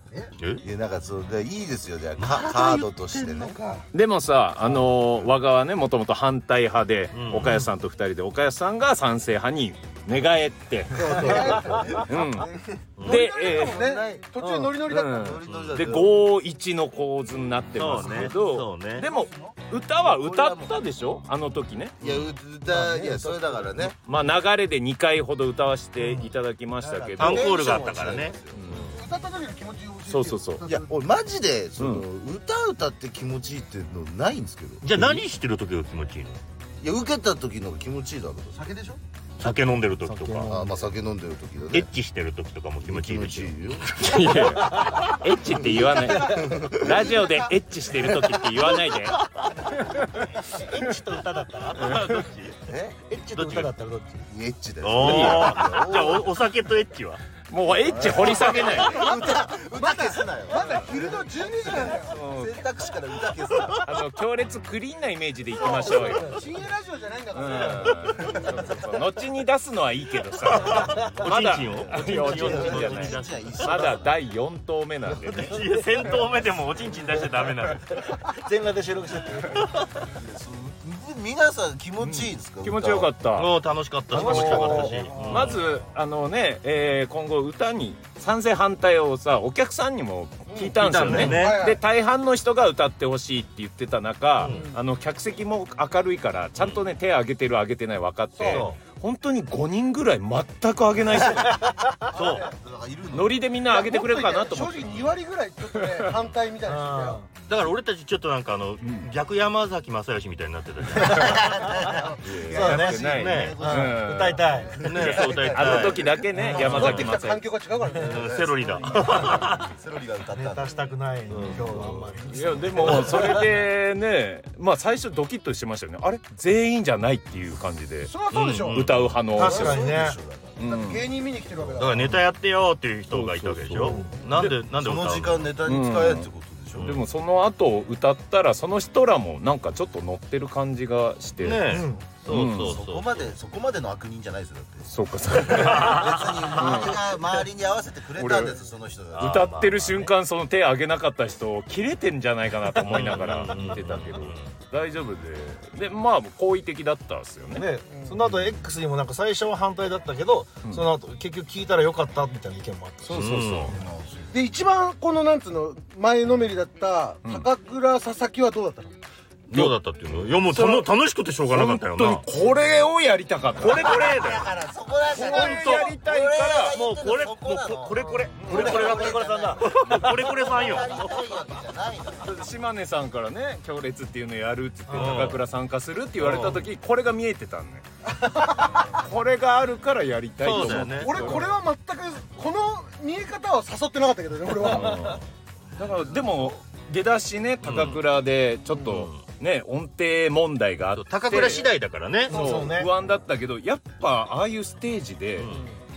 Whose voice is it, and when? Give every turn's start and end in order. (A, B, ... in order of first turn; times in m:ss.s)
0:00.4-0:00.7 A
0:00.6-0:03.6 B
0:02.2-0:03.8 A
0:03.9-0:12.5 C
0:07.1-0:07.7 A
0:10.9-0:12.0 D
0:11.3-0:14.3 B
0:11.3-0:11.6 A
0:13.0-0:13.2 A
0:13.0-0:13.8 C
0:13.1-0:15.3 D
0:14.4-0:22.0 C
0:15.2-0:16.2 B
0:15.4-0:15.9 A
0:17.8-0:19.1 A
0:19.2-0:19.5 D
0:20.0-0:20.8 B
0:22.0-0:22.4 A
0:22.0-0:24.0 B
0:22.7-0:23.7 E
0:24.0-0:27.5 C
0:26.8-0:28.7 B
0:27.2-0:29.0 A
0:28.5-0:29.0 C
0:29.0-0:30.9 D
0:30.1-0:30.6 C
0:30.6-0:35.2 B
0:31.8-0:32.0 C
0:34.8-0:36.4 A
0:36.8-0:38.6 B
0:38.6-0:39.0 D
0:39.4-0:40.5 A
0:40.0-0:40.7 E
0:40.4-0:41.9 B
0:41.7-0:43.6 A
0:42.8-0:44.0 B
0:44.0-0:49.2 C
0:44.3-0:45.1 E
0:44.8-0:47.1 B
0:46.0-0:47.5 D
0:46.0-0:46.5 E
0:49.8-0:50.3 C
0:50.5-0:51.8 E
0:51.5-0:52.6 A
0:51.8-0:52.1 C
0:52.6-0:53.7 B
0:53.3-0:54.3 E
0:53.4-0:53.7 A
0:54.2-0:56.3 B
0:54.8-0:57.2 A
0:55.0-0:55.6 C
0:57.5-0:59.1 C
0:57.7-1:03.9 B
0:58.8-1:02.2 D
1:02.1-1:02.6 C
1:03.8-1:06.4 C
1:05.5-1:08.5 D
1:07.3-1:15.6 C
1:10.5-1:13.9 A
1:10.6-1:14.2 B
1:10.8-1:11.1 E
1:15.2-1:15.8 E
1:15.4-1:18.3 A
1:17.9-1:20.0 E
1:20.0-1:23.1 B
1:22.0-1:23.5 C
1:23.4-1:25.7 A
1:24.1-1:25.7 E
1:24.2-1:25.6 D
1:24.3-1:41.6 C
1:30.5-1:31.8 D
1:30.8-1:31.6 A
1:34.4-1:34.7 A
1:34.5-1:34.8 D
1:36.6-1:36.8 A
1:38.3-1:38.7 D
1:38.4-1:38.8 A
1:41.1-1:41.5 B
1:41.4-1:41.9 E
1:42.1-1:42.5 D
1:42.2-1:42.5 A
1:42.3-1:43.4 B
1:43.1-1:45.0 C
1:43.7-1:47.2 D
1:44.8-1:45.1 A
1:45.7-1:46.1 C
1:46.6-1:47.3 E
1:47.5-1:51.3 A
1:48.8-1:49.1 C
1:51.1-1:56.2 B
1:52.2-1:57.5 C
1:52.5-1:55.0 E
1:53.1-1:53.6 A
1:54.8-1:56.1 A
1:56.3-1:56.8 E
1:56.6-1:59.0 D
1:56.8-1:57.1 A
1:58.0-1:59.7 A
1:58.1-2:00.8 B
2:00.3-2:03.5 E
2:01.3-2:01.7 A
2:01.5-2:09.9 C
2:08.0-2:08.9 D
2:08.3-2:09.2 A
2:09.3-2:10.2 E
2:09.4-2:10.5 B
2:09.5-2:10.0 D
2:10.6-2:11.0 C
2:10.6-2:12.2 D
2:11.8-2:15.5 A
2:13.1-2:14.5 C
2:13.8-2:14.2 E
2:14.4-2:17.0 B
2:15.6-2:16.3 C
2:16.8-2:17.0 A
2:16.8-2:22.8 C
2:21.4-2:23.4 A
2:21.7-2:22.2 E
2:22.4-2:24.9 B
2:24.9-2:27.1 C
2:25.5-2:30.1 B
2:25.6-2:26.4 A
2:28.2-2:28.6 C
2:29.2-2:37.7 C
2:29.2-2:30.0 A
2:32.8-2:34.5 A
2:37.5-2:43.2 E
2:37.9-2:38.2 D
2:38.2-2:38.6 C
2:40.6-2:40.9 C
2:43.0-2:43.8 C
2:43.1-2:43.8 A
2:43.7-2:44.4 B
2:44.3-2:49.0 D
2:49.5-2:52.3 A
2:50.4-2:50.9 C
2:51.5-2:54.2 C
2:53.6-2:54.5 A
2:53.8-3:02.4 B
2:55.1-2:56.8 C
2:55.2-2:55.9 A
2:56.7-3:01.4 A
2:58.1-3:00.1 E
3:02.2-3:07.8 C
3:04.9-3:05.2 E
3:04.9-3:05.4 A
3:06.2-3:06.7 A
3:08.7-3:11.6 C
3:10.4-3:11.2 A
3:10.8-3:15.1 D
3:14.6-3:15.2 C
3:14.7-3:15.2 E
3:15.8-3:21.7 C
3:17.6-3:18.0 A
3:18.7-3:19.0 D
3:18.9-3:19.2 A
3:21.0-3:22.4 A
3:22.3-3:22.9 E
3:22.3-3:25.5 C
3:25.4-3:25.7 A